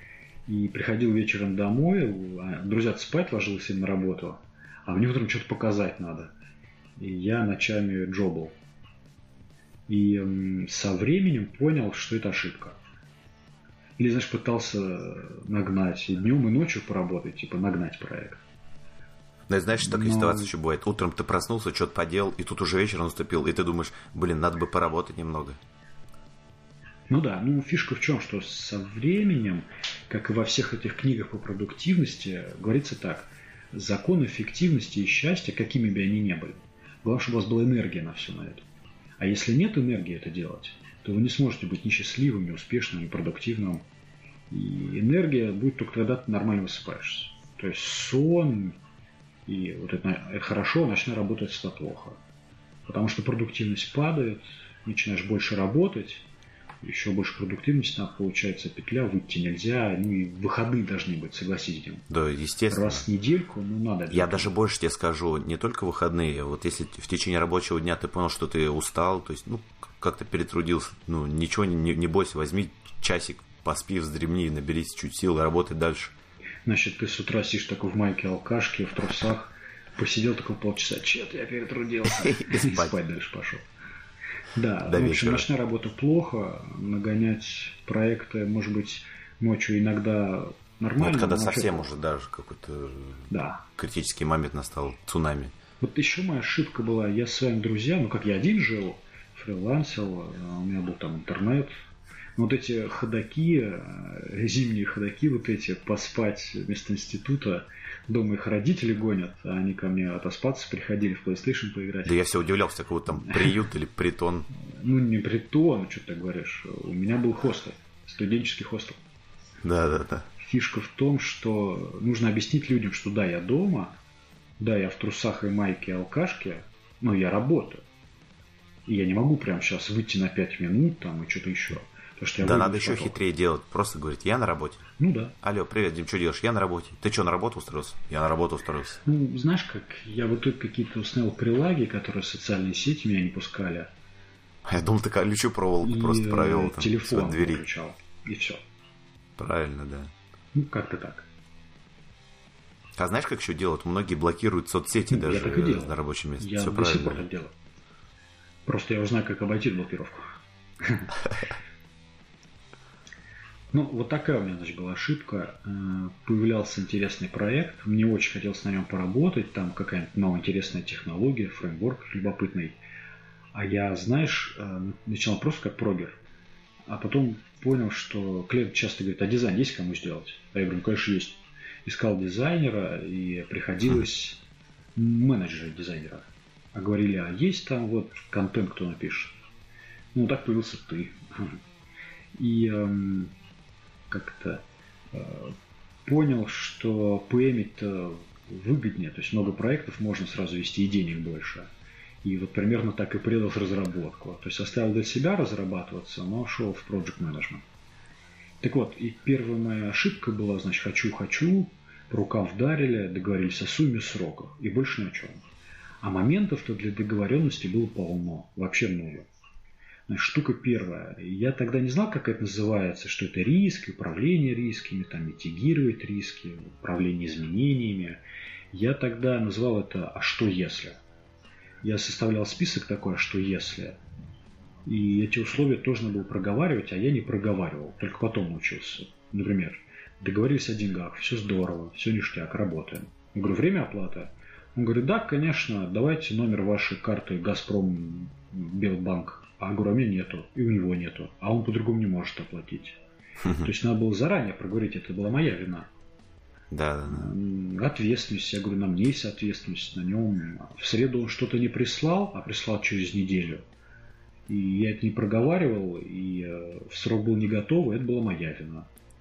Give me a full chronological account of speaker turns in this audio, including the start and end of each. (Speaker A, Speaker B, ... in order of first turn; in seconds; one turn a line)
Speaker A: 0.5-6.3
Speaker A: 7.0-8.6
Speaker A: 9.9-12.8
Speaker A: 14.0-18.4
Speaker B: 19.5-25.6
Speaker A: 19.8-20.5
Speaker A: 27.1-38.6
Speaker A: 39.2-43.8
Speaker A: 44.5-48.8
Speaker A: 49.5-52.2
Speaker A: 52.9-56.3
Speaker A: 56.8-62.1
Speaker B: 62.1-63.0
Speaker A: 62.7-64.5
Speaker B: 64.1-76.1
Speaker A: 76.7-83.6
Speaker B: 82.1-83.0
Speaker A: 84.5-91.9
Speaker B: 84.9-85.5
Speaker B: 91.0-95.5
Speaker A: 93.3-93.6
Speaker A: 95.8-101.7
Speaker A: 102.4-112.2
Speaker B: 112.0-114.5
Speaker A: 114.6-119.0
Speaker B: 119.6-120.3
Speaker A: 120.4-123.9
Speaker A: 124.6-127.8
Speaker A: 128.9-133.2
Speaker B: 132.4-134.8
Speaker A: 135.0-135.3
Speaker B: 135.4-139.0
Speaker A: 139.1-143.9
Speaker B: 144.6-147.6
Speaker A: 145.8-148.6
Speaker B: 149.4-150.1
Speaker A: 150.6-151.3
Speaker B: 152.9-157.3
Speaker A: 155.1-157.5
Speaker A: 158.7-160.3
Speaker A: 160.8-161.1
Speaker A: 163.7-172.8
Speaker A: 173.5-176.2
Speaker A: 176.9-184.4
Speaker A: 184.9-189.4
Speaker A: 190.1-191.6
Speaker A: 192.3-193.3
Speaker A: 194.1-201.7
Speaker A: 202.2-207.6
Speaker A: 208.6-215.4
Speaker A: 216.0-219.3
Speaker A: 220.1-228.2
Speaker A: 228.7-231.0
Speaker A: 231.8-234.0
Speaker A: 234.9-253.0
Speaker B: 253.4-253.7
Speaker A: 253.5-255.9
Speaker B: 256.7-257.3
Speaker A: 257.1-263.6
Speaker A: 264.5-268.9